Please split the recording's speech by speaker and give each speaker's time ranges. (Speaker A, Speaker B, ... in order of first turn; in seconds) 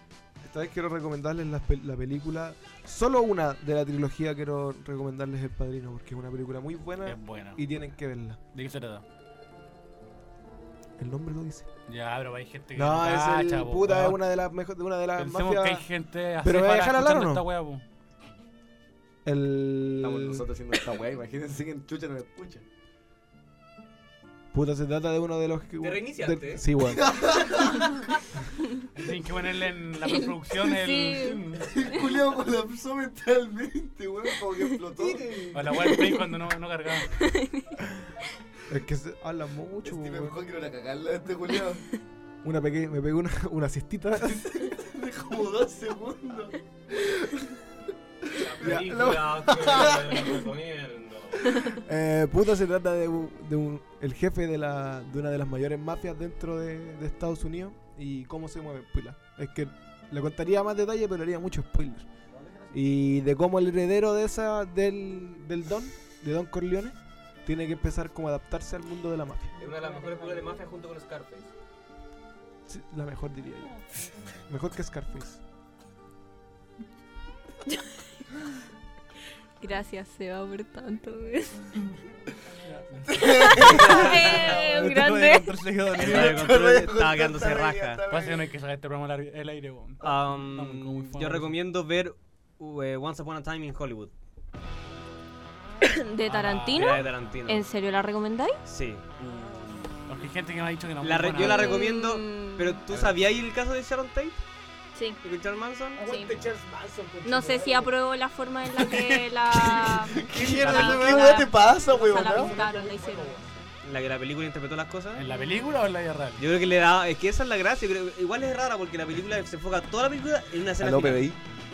Speaker A: 0.4-8.4, 11.0-11.7, 12.7-15.9, 16.4-17.5, 19.2-20.4, 24.5-27.0, 35.0-35.5, 38.7-40.4, 42.4-44.4, 48.6-50.1, 51.8-62.1, 62.7-69.5, 72.7-73.8, 74.5-75.4, 106.0-107.9, 110.3-110.6, 111.9-113.5
Speaker B: 7.0-7.6, 8.5-9.0, 11.9-14.2, 15.2-17.8, 28.9-31.6, 35.5-37.2, 82.7-83.2, 84.8-86.1, 88.1-91.6, 96.2-97.3, 100.0-101.8, 115.1-116.4
Speaker C: 20.0-22.6, 26.8-28.0, 31.5-35.5, 39.8-41.8, 44.2-47.3, 83.1-84.8, 85.9-88.5, 102.9-103.2, 109.5-112.6, 120.8-121.4
Speaker D: 25.8-26.6, 48.4-51.6, 62.3-62.7, 69.6-71.5, 83.6-84.6, 85.9-88.0, 90.0-94.1, 96.7-97.6, 98.7-99.1, 101.0-104.4, 105.2-106.1, 110.6-111.3, 113.8-115.2, 116.4-121.3
Speaker E: 30.0-31.4, 37.2-37.7, 79.6-81.7, 83.3-85.6, 95.8-98.6, 101.3-102.8, 106.0-106.4, 107.2-113.7